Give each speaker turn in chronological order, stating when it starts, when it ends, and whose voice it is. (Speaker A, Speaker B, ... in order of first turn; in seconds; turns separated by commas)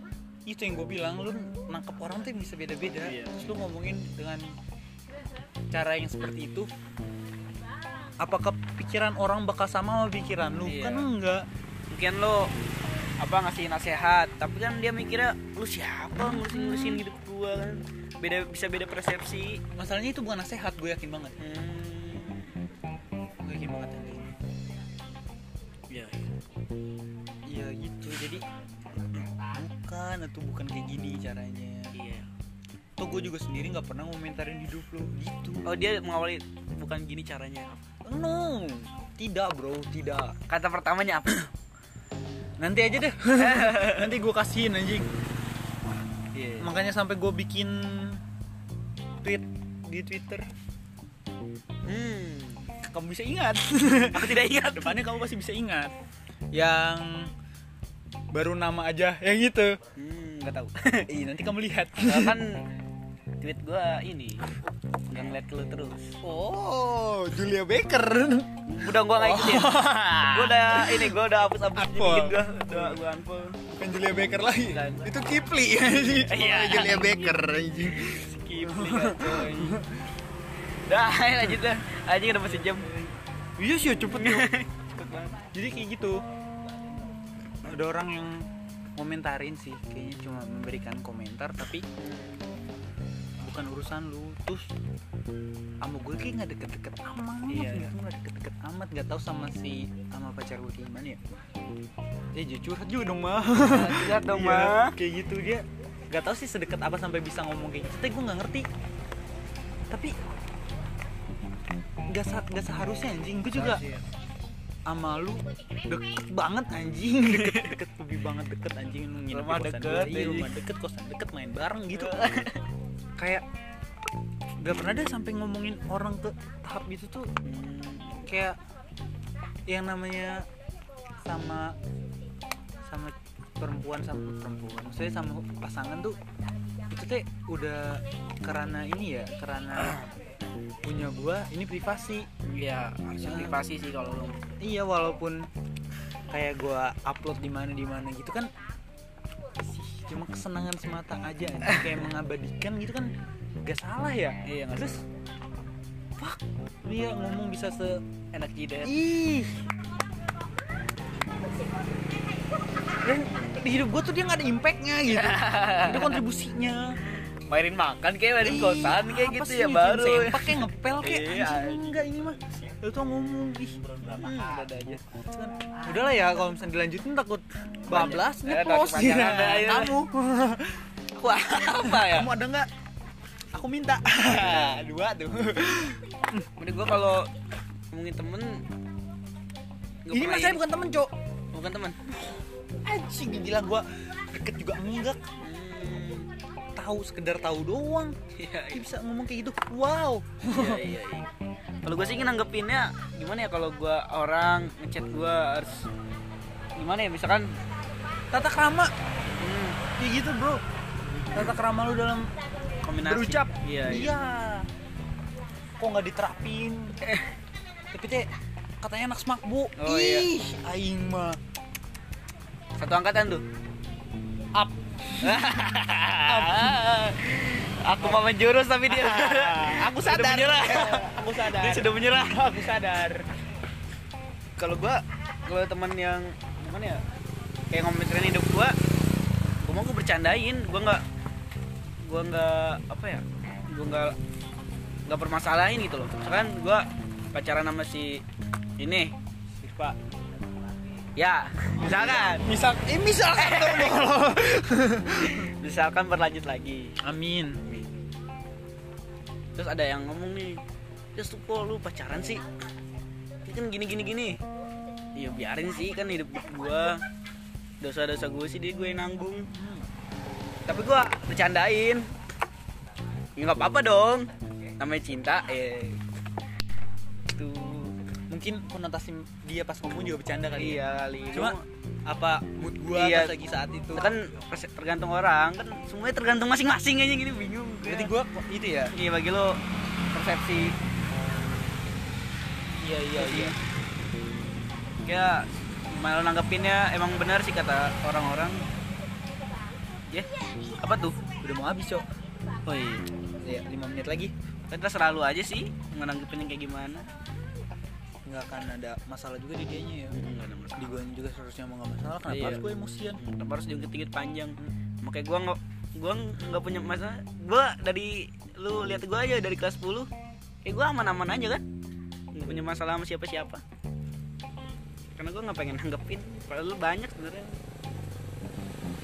Speaker A: 0.5-4.5, Speaker B: 3.0-3.4, Speaker A: 5.7-6.7, Speaker A: 8.2-11.5, Speaker B: 10.6-11.1, Speaker B: 11.9-12.5, Speaker B: 13.2-19.6, Speaker A: 16.2-17.0, Speaker A: 19.7-21.4, Speaker B: 21.4-22.6, Speaker A: 23.4-24.3, Speaker B: 25.9-26.4, Speaker A: 27.5-28.4, Speaker A: 29.3-31.9, Speaker B: 31.9-32.3, Speaker A: 33.0-35.7, Speaker B: 35.6-37.8, Speaker A: 38.0-40.4, Speaker B: 40.5-41.5, Speaker A: 42.6-45.1, Speaker B: 43.4-44.1, Speaker B: 46.3-46.7, Speaker A: 46.6-48.2, Speaker A: 49.2-50.5, Speaker B: 51.9-52.8, Speaker A: 52.8-55.9, Speaker B: 53.9-55.1, Speaker A: 56.5-57.3, Speaker A: 58.3-59.8, Speaker B: 60.0-61.1, Speaker A: 61.1-62.4, Speaker B: 62.0-62.7, Speaker B: 63.4-64.5, Speaker B: 65.1-66.2, Speaker A: 66.2-71.2, Speaker B: 68.7-73.6, Speaker A: 71.7-73.0, Speaker A: 73.7-80.0, Speaker B: 74.7-75.1, Speaker B: 76.2-79.8, Speaker B: 80.9-83.1, Speaker A: 83.6-84.5, Speaker B: 84.1-85.4, Speaker A: 85.5-86.2, Speaker A: 87.6-91.9, Speaker B: 92.0-92.5, Speaker A: 93.4-94.7, Speaker A: 95.8-101.2, Speaker B: 97.5-97.9, Speaker A: 102.3-108.7, Speaker B: 103.6-105.0, Speaker A: 112.1-113.8, Speaker B: 113.5-114.0, Speaker A: 114.9-122.4, Speaker B: 117.3-117.8, Speaker B: 119.3-120.5, Speaker B: 121.9-122.6, Speaker A: 123.2-123.5, Speaker A: 124.6-127.3, Speaker B: 127.4-128.3, Speaker A: 128.3-128.6, Speaker A: 129.7-130.5, Speaker A: 131.2-131.8, Speaker A: 132.9-136.2, Speaker A: 136.9-140.0, Speaker B: 139.8-140.1, Speaker A: 140.8-142.3, Speaker B: 142.4-144.4, Speaker A: 143.2-143.6, Speaker A: 144.6-145.5, Speaker A: 146.3-148.5, Speaker A: 149.6-153.1, Speaker A: 153.6-155.0, Speaker B: 154.4-155.0, Speaker A: 156.2-158.0, Speaker B: 158.3-158.9, Speaker A: 158.8-159.6, Speaker A: 163.0-167.0, Speaker B: 165.1-166.2, Speaker B: 167.3-172.5, Speaker A: 168.4-174.4, Speaker B: 174.1-175.0, Speaker A: 175.2-180.9, Speaker B: 177.9-180.0, Speaker B: 181.2-182.3, Speaker A: 181.7-182.7, Speaker A: 183.5-186.5, Speaker B: 184.2-184.8, Speaker B: 186.6-187.3, Speaker B: 187.9-188.7, Speaker B: 190.1-190.6, Speaker A: 190.1-191.1, Speaker B: 191.5-192.4, Speaker A: 192.8-195.2, Speaker B: 195.4-196.3, Speaker A: 196.8-198.2, Speaker B: 198.3-198.9, Speaker A: 198.7-200.9, Speaker B: 200.5-201.3, Speaker B: 201.8-205.9, Speaker B: 206.8-207.6, Speaker A: 208.3-208.9, Speaker B: 209.4-209.8, Speaker A: 210.0-212.3, Speaker B: 212.8-214.1, Speaker A: 213.1-214.7, Speaker A: 215.8-217.0, Speaker A: 217.9-218.3, Speaker A: 218.8-221.4, Speaker B: 219.8-220.3, Speaker B: 222.8-223.4, Speaker A: 224.5-225.6, Speaker B: 225.2-232.7, Speaker A: 226.2-226.8, Speaker A: 228.0-228.3, Speaker A: 228.9-233.3, Speaker B: 234.6-237.0, Speaker B: 237.7-238.8, Speaker B: 239.6-241.0, Speaker B: 242.0-244.2, Speaker B: 245.1-248.2, Speaker B: 248.8-249.2, Speaker A: 249.6-250.0, Speaker B: 251.2-252.5, Speaker A: 251.8-255.5, Speaker B: 253.4-254.0, Speaker B: 255.2-257.0, Speaker A: 257.0-257.6, Speaker B: 259.6-260.6, Speaker B: 261.1-262.4, Speaker B: 263.4-264.4, Speaker B: 265.2-267.0, Speaker B: 267.8-269.5, Speaker A: 269.5-269.9, Speaker B: 270.7-272.1, Speaker B: 273.4-276.0, Speaker B: 277.3-277.9, Speaker A: 278.3-284.2, Speaker B: 280.5-281.6, Speaker B: 282.9-283.4, Speaker B: 283.9-288.1, Speaker A: 287.9-288.9, Speaker B: 288.9-289.6, Speaker B: 290.1-290.7, Speaker A: 292.8-293.6, Speaker B: 293.1-293.6, Speaker B: 295.1-298.6, Speaker B: 300.1-301.2, Speaker A: 301.4-302.1, Speaker B: 302.7-303.1, Speaker A: 303.4-304.3, Speaker B: 304.7-307.1, Speaker A: 308.3-310.2, Speaker B: 310.1-311.0, Speaker A: 310.8-313.2, Speaker B: 312.3-320.1, Speaker B: 320.6-321.6, Speaker B: 322.3-323.6, Speaker B: 325.2-327.6